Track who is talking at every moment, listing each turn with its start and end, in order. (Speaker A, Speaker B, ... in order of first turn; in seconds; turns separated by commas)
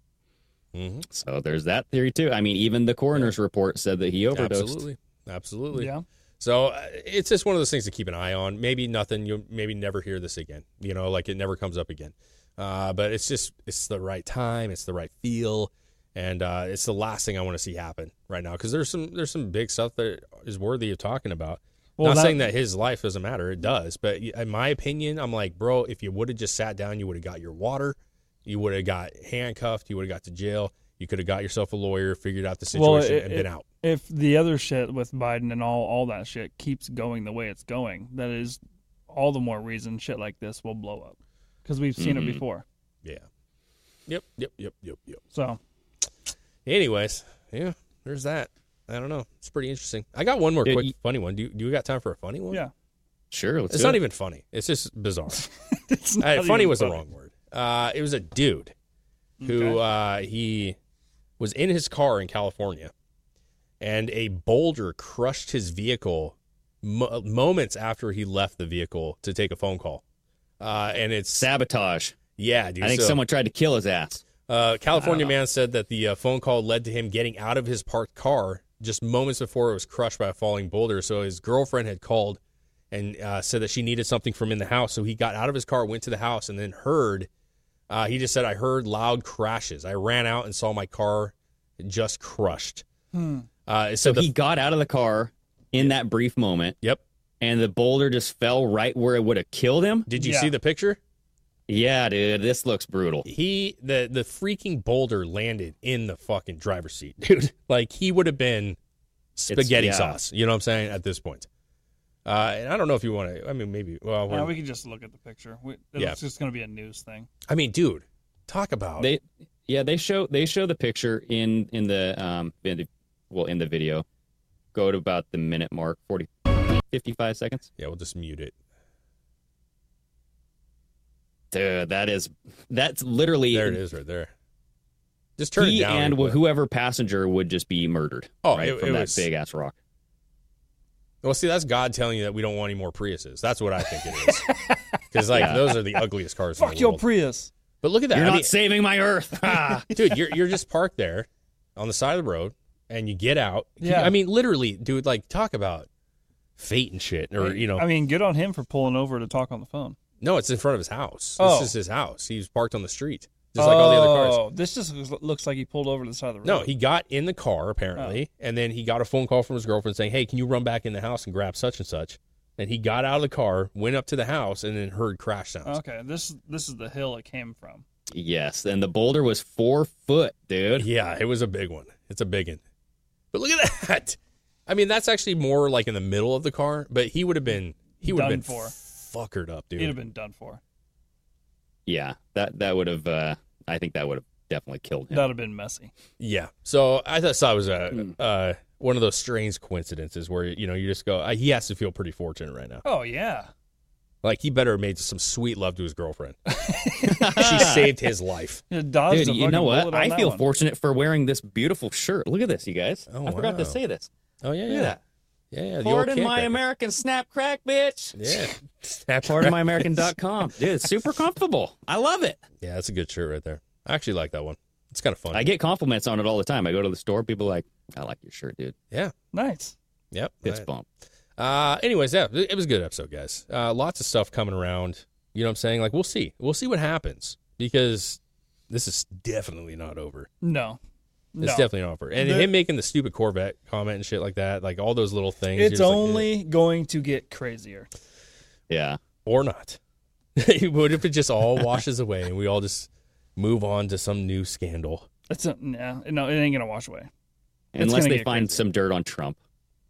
Speaker A: 0.7-1.1, Speaker B: 1.1-4.8, Speaker A: 4.3-33.7, Speaker C: 5.7-6.0, Speaker C: 22.0-22.4, Speaker C: 32.7-42.6, Speaker B: 42.0-42.4, Speaker A: 44.1-45.2, Speaker C: 45.3-45.6, Speaker A: 46.6-52.6, Speaker B: 50.6-50.9, Speaker B: 53.3-54.0, Speaker A: 53.7-55.4, Speaker C: 55.9-57.0, Speaker A: 56.2-58.7, Speaker C: 59.4-59.8, Speaker A: 59.4-60.8, Speaker A: 61.4-62.9, Speaker A: 63.8-70.0, Speaker A: 70.6-71.5, Speaker B: 71.4-72.2, Speaker A: 72.4-73.2, Speaker B: 72.8-74.2, Speaker A: 74.5-82.4, Speaker B: 75.0-75.3, Speaker A: 82.9-87.3, Speaker A: 87.9-92.8, Speaker C: 93.1-93.5, Speaker A: 93.7-94.3, Speaker B: 94.0-96.8, Speaker B: 97.4-100.1, Speaker A: 100.1-101.0, Speaker C: 100.1-100.5, Speaker B: 101.7-103.3, Speaker A: 103.2-108.8, Speaker A: 109.3-111.5, Speaker B: 109.5-110.2, Speaker A: 112.2-114.5, Speaker C: 114.3-117.3, Speaker A: 117.5-119.1, Speaker B: 119.0-124.0, Speaker B: 124.7-126.3, Speaker B: 126.9-127.7, Speaker A: 127.8-128.5, Speaker B: 131.5-133.8, Speaker A: 133.5-134.3, Speaker A: 135.4-136.4, Speaker B: 135.6-139.7, Speaker A: 138.4-139.2, Speaker A: 141.2-144.5, Speaker C: 144.3-145.0, Speaker A: 145.1-147.0, Speaker B: 145.3-145.6, Speaker C: 146.6-147.5, Speaker A: 147.8-148.6, Speaker B: 148.1-149.9, Speaker A: 149.9-155.9, Speaker C: 153.8-154.1, Speaker A: 156.6-157.9, Speaker C: 157.4-160.0, Speaker A: 160.2-164.4, Speaker C: 161.4-161.7, Speaker C: 163.6-166.7, Speaker A: 166.4-175.8, Speaker C: 175.7-177.8, Speaker B: 178.1-180.9, Speaker A: 180.8-182.6, Speaker A: 183.3-190.0, Speaker C: 188.0-188.7, Speaker C: 189.8-190.6, Speaker B: 191.9-195.3, Speaker C: 195.1-195.9, Speaker A: 196.2-202.8, Speaker C: 202.8-203.5, Speaker A: 204.2-206.4, Speaker C: 206.5-207.7, Speaker B: 207.0-207.9, Speaker A: 207.2-208.6, Speaker C: 208.7-210.4, Speaker B: 209.1-214.1, Speaker A: 213.1-213.8, Speaker A: 214.4-214.9, Speaker B: 214.7-215.0, Speaker A: 215.5-216.6, Speaker B: 215.8-218.5, Speaker A: 218.1-220.1, Speaker B: 219.2-222.4, Speaker A: 222.6-225.5, Speaker B: 225.3-228.7, Speaker C: 229.3-229.7, Speaker A: 230.1-230.7, Speaker B: 230.4-230.8, Speaker A: 231.4-240.3, Speaker C: 240.4-240.8, Speaker C: 241.3-242.5, Speaker A: 241.4-246.3, Speaker C: 245.5-247.9, Speaker B: 248.7-249.0, Speaker A: 249.2-249.8, Speaker A: 250.4-255.1, Speaker C: 255.3-257.1, Speaker B: 257.7-259.4, Speaker C: 257.8-258.6